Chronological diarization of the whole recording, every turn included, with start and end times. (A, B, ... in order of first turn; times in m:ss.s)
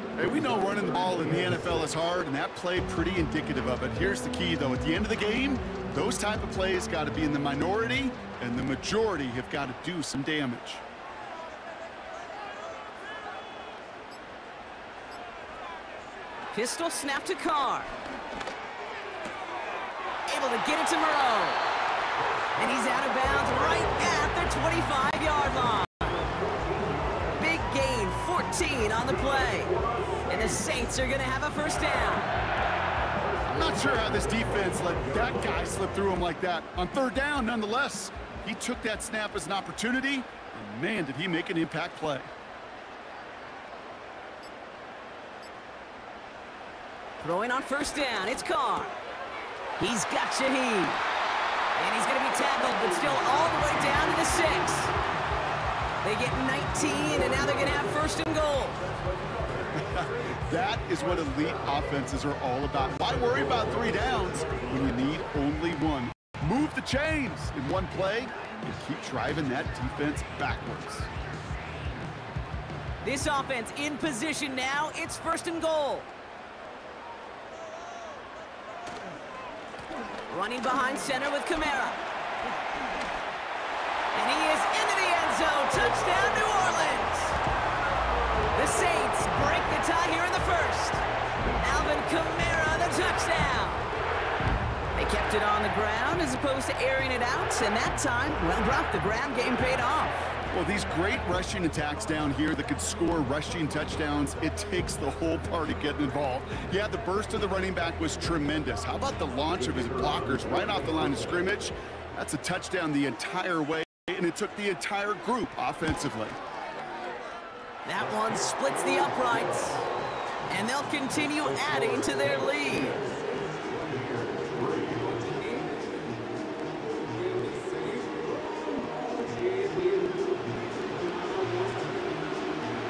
0:00.2-0:10.8 A
0:16.5-0:17.9 B
0:20.3-0:21.6 B
0:22.6-0:26.2 B
0:27.4-0:29.7 B
0:30.3-0:32.3 B
0:33.4-0:42.3 A
0:47.2-0:48.9 B
0:49.8-0:51.0 B
0:51.8-0:54.9 B
0:56.0-0:58.8 B
0:59.7-1:11.1 A
1:13.0-1:16.1 B
1:20.3-1:22.0 B
1:24.1-1:27.4 B
1:28.5-1:31.0 B
1:31.6-1:33.9 B
1:34.9-1:40.3 B
1:40.5-1:56.4 A
1:57.8-1:59.8 B
2:00.5-2:03.0 B